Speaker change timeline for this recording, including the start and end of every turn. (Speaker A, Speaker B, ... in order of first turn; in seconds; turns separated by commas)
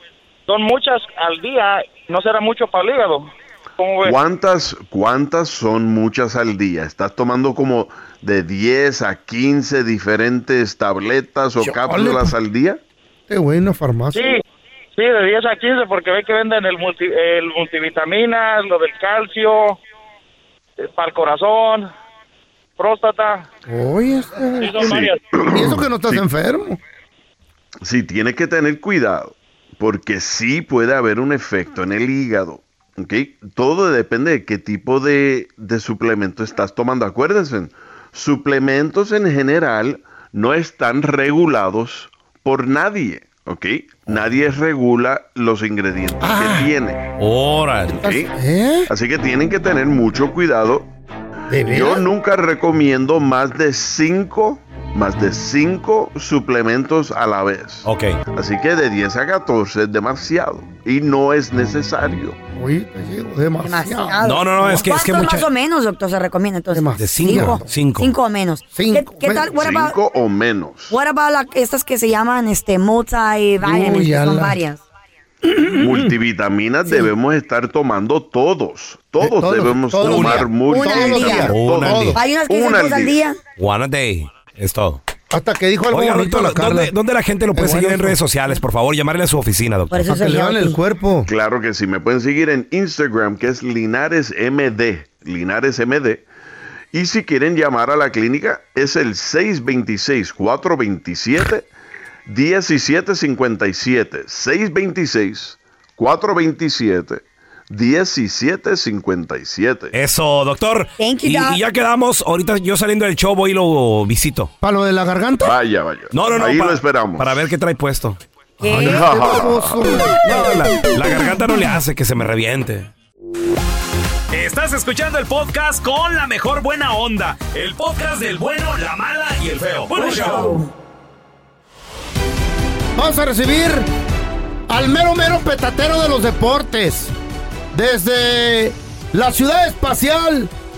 Speaker A: 0.5-4.2, Speaker B: 4.0-12.8, Speaker C: 11.6-12.3, Speaker C: 13.3-14.3, Speaker A: 14.1-14.4, Speaker A: 14.9-19.8, Speaker A: 20.8-21.9, Speaker A: 22.8-23.5, Speaker C: 23.7-26.8, Speaker A: 24.6-25.2, Speaker B: 24.8-26.2, Speaker B: 27.8-47.1, Speaker C: 46.2-46.7, Speaker D: 47.2-48.0, Speaker B: 47.9-48.3, Speaker C: 48.0-48.9, Speaker B: 48.9-50.9, Speaker C: 51.5-52.1, Speaker B: 51.6-62.4, Speaker D: 57.8-58.2, Speaker C: 62.5-64.9, Speaker E: 63.6-70.0, Speaker D: 64.2-65.5, Speaker C: 66.7-67.7, Speaker D: 67.0-68.1, Speaker C: 68.7-69.5, Speaker B: 69.5-71.0, Speaker E: 70.9-74.8, Speaker C: 73.6-74.6, Speaker C: 75.4-76.1, Speaker B: 75.8-83.2, Speaker C: 79.2-82.2, Speaker D: 80.0-80.5, Speaker E: 80.7-81.5, Speaker D: 81.4-82.2, Speaker E: 82.1-83.4, Speaker D: 83.6-85.0, Speaker C: 85.3-86.9, Speaker D: 85.9-90.0, Speaker C: 87.5-88.2, Speaker E: 89.9-90.8, Speaker C: 90.0-91.3, Speaker B: 91.3-96.2, Speaker B: 96.9-101.7, Speaker B: 102.3-109.9, Speaker D: 109.9-114.5, Speaker E: 111.0-111.6, Speaker C: 114.6-115.5, Speaker B: 115.4-117.5, Speaker D: 116.1-118.2, Speaker E: 118.6-119.1, Speaker C: 118.6-120.2, Speaker B: 118.8-120.1, Speaker D: 120.2-122.9, Speaker F: 124.3-130.5, Speaker E: 129.9-130.7, Speaker D: 130.1-130.6, Speaker C: 132.9-133.9, Speaker C: 134.7-137.1, Speaker C: 137.7-140.5